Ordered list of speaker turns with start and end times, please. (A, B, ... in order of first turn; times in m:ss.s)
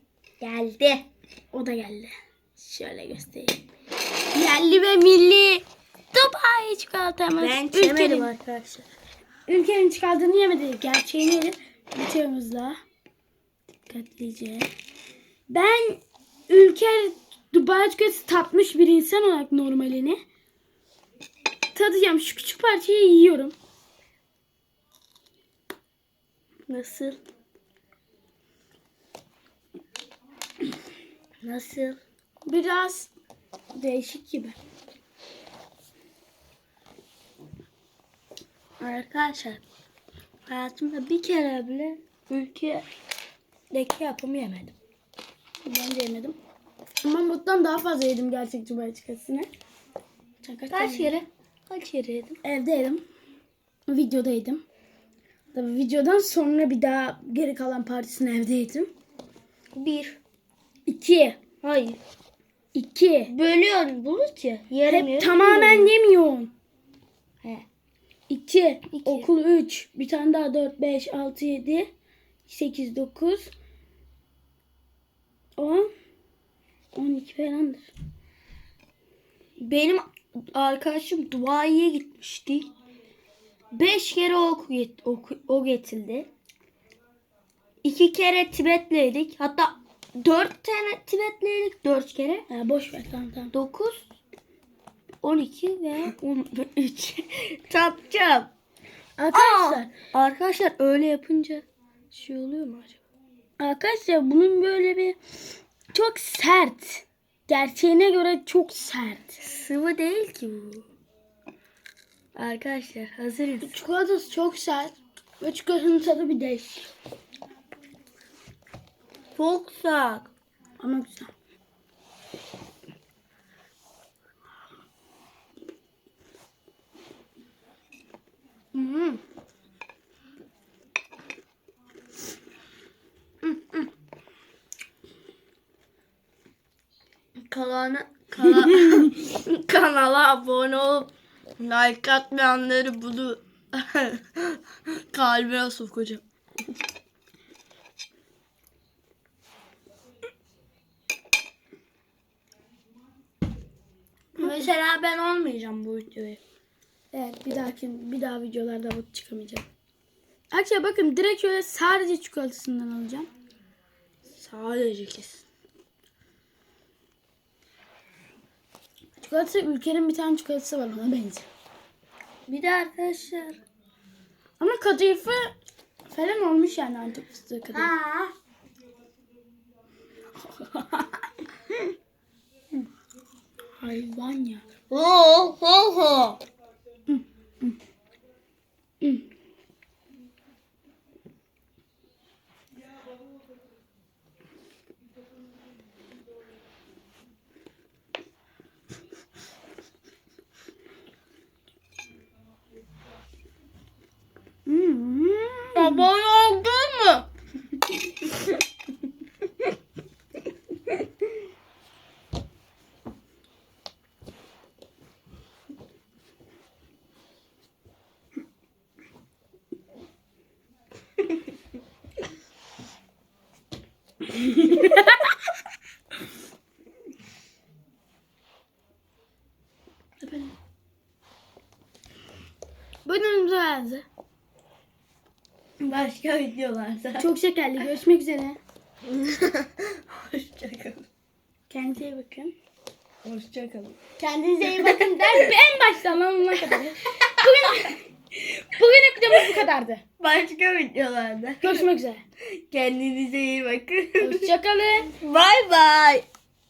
0:00.4-0:01.0 A
0:01.5-0:03.6 B
0:04.3-0:08.3 B
0:07.4-0:08.9 A
0:09.5-0:12.8 B
0:13.9-0:14.7 B
0:15.5-0:20.2 B
0:21.7-0:23.5 B
0:26.7-0:27.2 A
0:31.4-0:32.0 A
0:32.4-0:33.1 B
0:33.7-0:34.6 B
0:38.8-0:39.6 A
0:40.4-0:42.9 A
0:43.7-0:44.7 A
0:45.6-0:46.4 B
0:47.0-0:49.5 B
0:50.4-0:51.1 B
0:50.7-0:52.4 A
0:52.4-0:53.0 B
0:53.9-0:54.6 B
0:55.5-0:58.9 B
0:59.7-1:00.2 A
1:00.9-1:01.4 B
1:01.6-1:02.0 A
1:02.7-1:03.3 B
1:03.3-1:05.9 A
1:04.8-1:06.5 B
1:08.3-1:11.9 B
1:08.9-1:09.3 A
1:12.5-1:13.5 B
1:15.6-1:15.9 B
1:16.9-1:17.9 B
1:19.6-1:22.7 A
1:23.7-1:26.3 A
1:27.8-1:32.4 A
1:32.5-1:33.5 B
1:33.5-1:34.0 A
1:35.2-1:38.5 A
1:39.2-1:39.9 B
1:39.3-1:43.0 A
1:43.6-1:45.2 B
1:45.9-1:49.4 B
1:49.4-1:50.9 A
1:52.3-1:53.7 A
1:53.6-1:56.9 B
1:59.4-2:00.3 A
2:00.8-2:01.3 B
2:08.7-2:09.2 B
2:17.4-2:26.2 A
2:34.3-2:36.4 A
2:34.4-2:34.7 B
2:37.1-2:39.6 B
2:40.5-2:43.3 B
2:44.3-2:45.4 A
2:49.2-2:51.5 B
2:52.5-2:53.6 A
2:54.6-2:55.5 B
2:56.1-2:57.9 B
2:57.7-2:58.3 A
3:00.6-3:01.0 B
3:03.8-3:04.6 B
3:04.9-3:06.4 A
3:07.1-3:07.7 B
3:24.6-3:26.1 B
3:25.7-3:27.2 A
3:44.3-3:45.1 B
3:50.2-3:50.5 B
3:53.0-3:54.0 B
3:55.8-3:57.3 A
3:57.2-3:58.6 B
3:59.0-4:01.0 A
4:01.7-4:02.5 B
4:03.2-4:04.1 A
4:04.2-4:10.0 B
4:04.6-4:05.5 A
4:07.4-4:07.7 A
4:10.2-4:11.8 A
4:11.6-4:12.2 B
4:12.7-4:14.5 A
4:14.2-4:15.1 B
4:15.1-4:16.3 A